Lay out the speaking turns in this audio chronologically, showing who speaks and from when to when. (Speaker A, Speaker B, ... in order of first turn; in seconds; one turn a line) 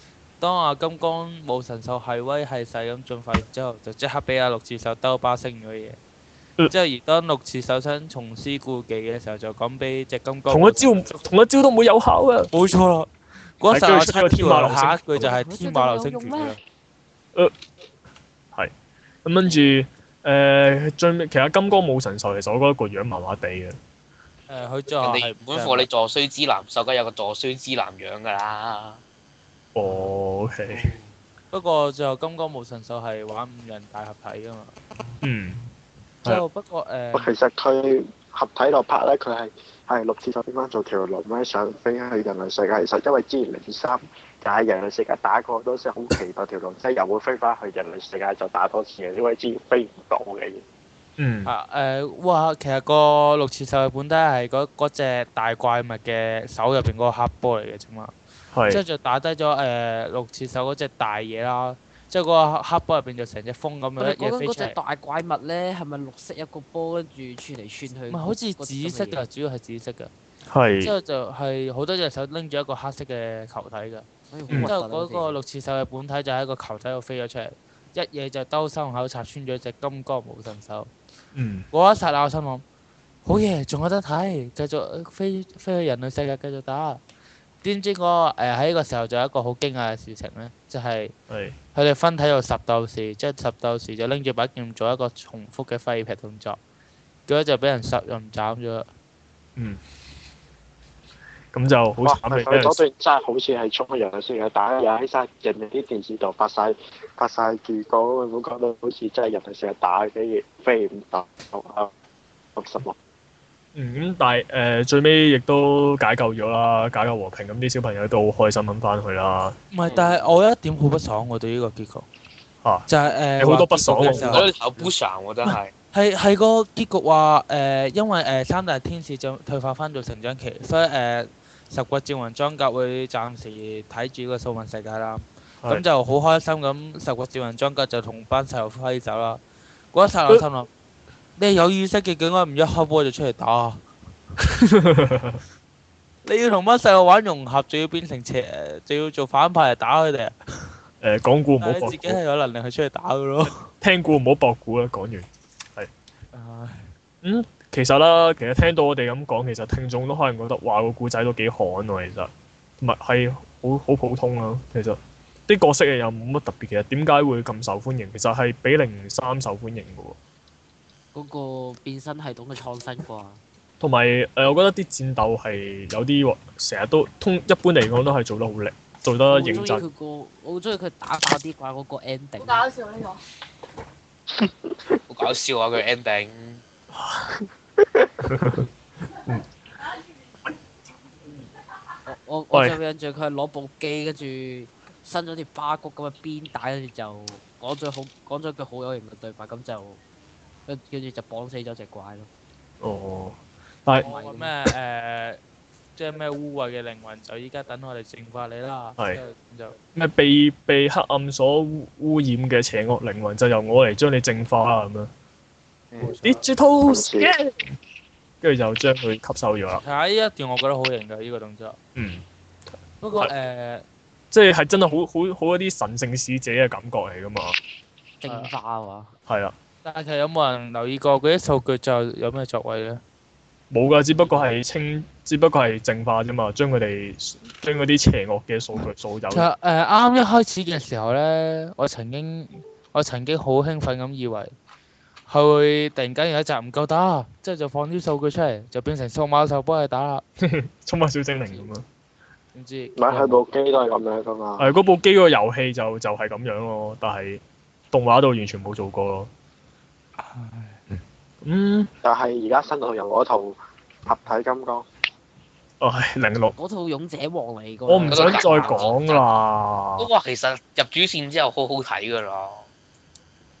Speaker A: 0.4-6.0
Speaker A: 6.7-10.9
Speaker B: 10.5-12.5
Speaker A: 12.5-16.6
Speaker B: 13.7-15.3
Speaker C: 15.2-16.5
Speaker B: 19.2-23.8
Speaker A: 24.5-25.9
Speaker D: 25.0-29.0
Speaker B: 29.7-30.9
Speaker A: 31.5-34.7
Speaker B: 35.2-35.6
Speaker A: 36.2-37.3
Speaker E: 37.1-50.6
Speaker B: 51.2-51.5
Speaker A: 51.5-58.1
Speaker B: 58.5-58.8
Speaker A: 58.7-64.8
Speaker C: 64.0-69.2
Speaker A: 68.1-70.1
Speaker B: 70.5-70.9
Speaker A: 70.8-80.9
Speaker C: 74.3-75.4
Speaker B: 81.3-81.7
Speaker A: 81.7-82.6
Speaker A: 83.2-87.0
Speaker A: 87.6-91.1
Speaker B: 91.3-91.5
Speaker A: 91.7-96.6
Speaker A: 97.3-98.8
Speaker B: 101.5-102.8
Speaker E: 102.0-111.9
Speaker E: 112.5-112.9
Speaker B: 113.7-119.6
Speaker A: 119.7-122.0
Speaker D: 119.8-120.1
Speaker A: 122.9-124.5
Speaker B: 123.4-124.5
Speaker D: 124.1-125.7
Speaker A: 125.9-139.4
Speaker A: 139.9-140.7
Speaker A: 141.4-143.8
Speaker B: 144.4-145.4
Speaker A: 146.2-150.3
Speaker B: 151.0-152.2
Speaker A: 151.6-153.7
Speaker B: 153.8-155.9
Speaker A: 156.3-156.9
Speaker B: 157.2-170.2
Speaker C: 171.1-173.4
Speaker B: 173.8-179.8
Speaker C: 179.3-182.9
Speaker D: 185.1-186.6
Speaker B: 186.9-187.4
Speaker B: 188.2-188.7
Speaker C: 192.1-200.0
Speaker B: 192.5-192.8
Speaker C: 200.7-202.3
Speaker B: 202.8-204.1
Speaker C: 204.0-204.5
Speaker A: 204.0-205.4
Speaker A: 205.9-209.8
Speaker B: 209.9-215.1
Speaker A: 216.0-216.4
Speaker B: 216.2-217.7
Speaker E: 216.8-217.3
Speaker B: 218.4-219.8
Speaker A: 219.8-221.8
Speaker B: 221.9-222.2
Speaker A: 223.0-223.8
Speaker B: 224.3-227.6
Speaker C: 228.2-229.1
Speaker A: 228.2-228.5
Speaker B: 229.3-229.5
Speaker A: 229.8-233.0
Speaker B: 233.7-239.5
Speaker A: 239.3-244.5
Speaker A: 245.3-250.2
Speaker B: 250.4-251.8
Speaker A: 252.5-253.4
Speaker E: 252.9-254.7
Speaker B: 254.6-259.3
Speaker A: 260.2-260.8
Speaker B: 261.4-261.9
Speaker E: 262.0-264.9
Speaker B: 265.8-266.5
Speaker C: 266.5-268.9
Speaker B: 267.9-270.1
Speaker D: 268.1-269.2
Speaker D: 270.0-272.6